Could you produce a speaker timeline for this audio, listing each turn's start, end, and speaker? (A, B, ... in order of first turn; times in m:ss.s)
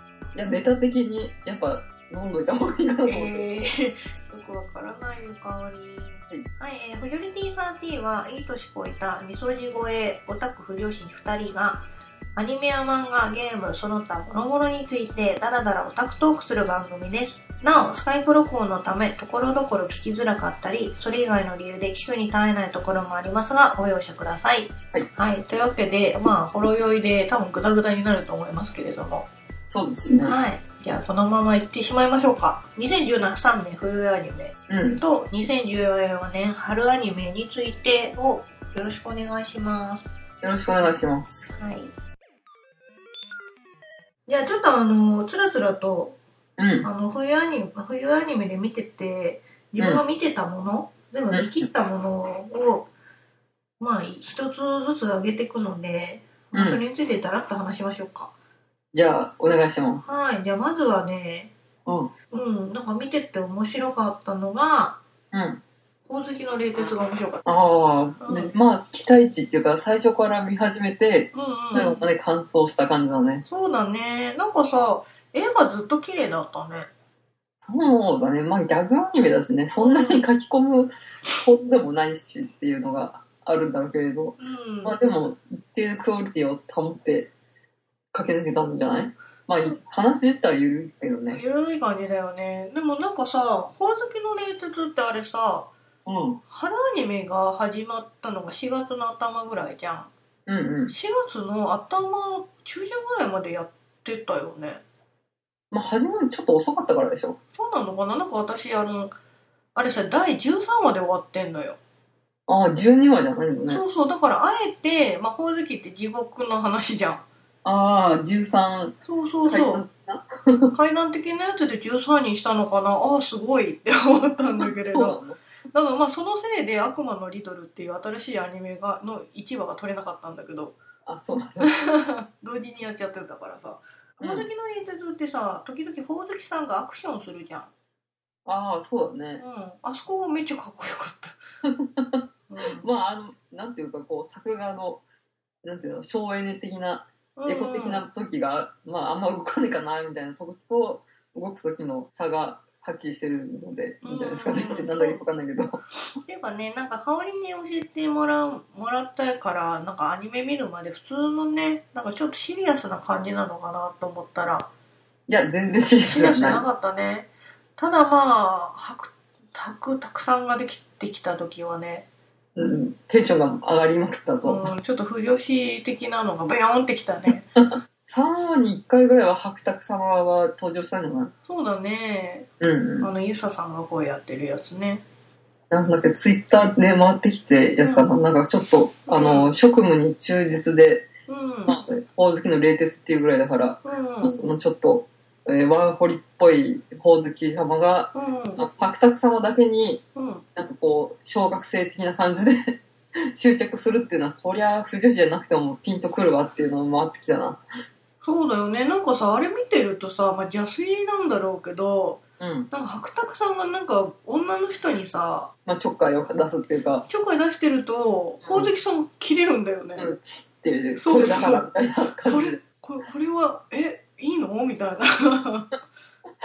0:00.3-0:03.4 A
0:03.0-0:11.8 B
0:12.4-0:29.3 B
0:29.7-0:30.4 A
0:30.2-0:40.0 B
0:34.7-0:35.0 A
0:40.4-0:41.5 A
0:41.6-0:41.9 B
0:44.3-0:46.2 B
0:46.6-0:46.9 A
0:46.8-0:52.9 B
0:51.3-0:51.7 A
0:53.8-0:58.3 B
0:56.5-0:56.8 A
0:58.9-1:00.0 A
1:00.0-1:01.5 B
1:01.8-1:02.1 A
1:02.3-1:05.0 B
1:05.3-1:05.6 A
1:06.1-1:07.4 B
1:06.8-1:13.4 A
1:08.2-1:08.5 B
1:11.3-1:12.0 B
1:13.5-1:16.9 B
1:17.6-1:27.3 A
1:19.8-1:20.2 B
1:24.4-1:25.0 B
1:28.1-1:31.4 A
1:31.3-1:35.7 B
1:36.0-1:36.4 A
1:36.5-1:40.1 B
1:40.5-1:40.9 A
1:40.9-1:44.8 B
1:45.7-1:47.4 A
1:47.6-1:49.1 B
1:49.7-1:51.8 B
1:52.5-1:53.8 A
1:53.7-1:57.2 B
1:57.6-2:00.7 A
1:59.0-1:59.8 B
2:00.7-2:05.2 B
2:04.6-2:05.4 A
2:05.7-2:10.8 B
2:11.0-2:11.7 A
2:11.6-2:17.7 B
2:14.2-2:14.5 A
2:18.4-2:19.4 A
2:19.4-2:21.4 B
2:21.6-2:25.0 A
2:22.5-2:22.9 B
2:25.6-2:35.8 A
2:27.4-2:28.0 B
2:34.0-2:35.2 B
2:36.2-2:44.7 B
2:45.3-2:46.6 A
2:46.0-2:52.0 B
2:52.6-2:54.7 A
2:54.4-2:57.5 B
2:57.6-3:01.3 A
3:01.5-3:02.5 B
3:02.6-3:03.1 A
3:03.0-3:05.0 B
3:05.7-3:11.1 A
3:07.8-3:08.1 B
3:09.1-3:09.5 B
3:11.3-3:11.8 B
3:11.7-3:20.0 A
3:13.8-3:14.4 B
3:18.1-3:18.6 B
3:20.1-3:20.4 B
3:20.6-3:27.6 A
3:28.2-3:35.5 B
3:32.4-3:32.7 A
3:35.6-3:37.0 A
3:37.1-3:40.1 B
3:38.4-3:38.7 A
3:40.0-3:42.6 A
3:41.0-3:41.7 B
3:42.2-3:45.7 B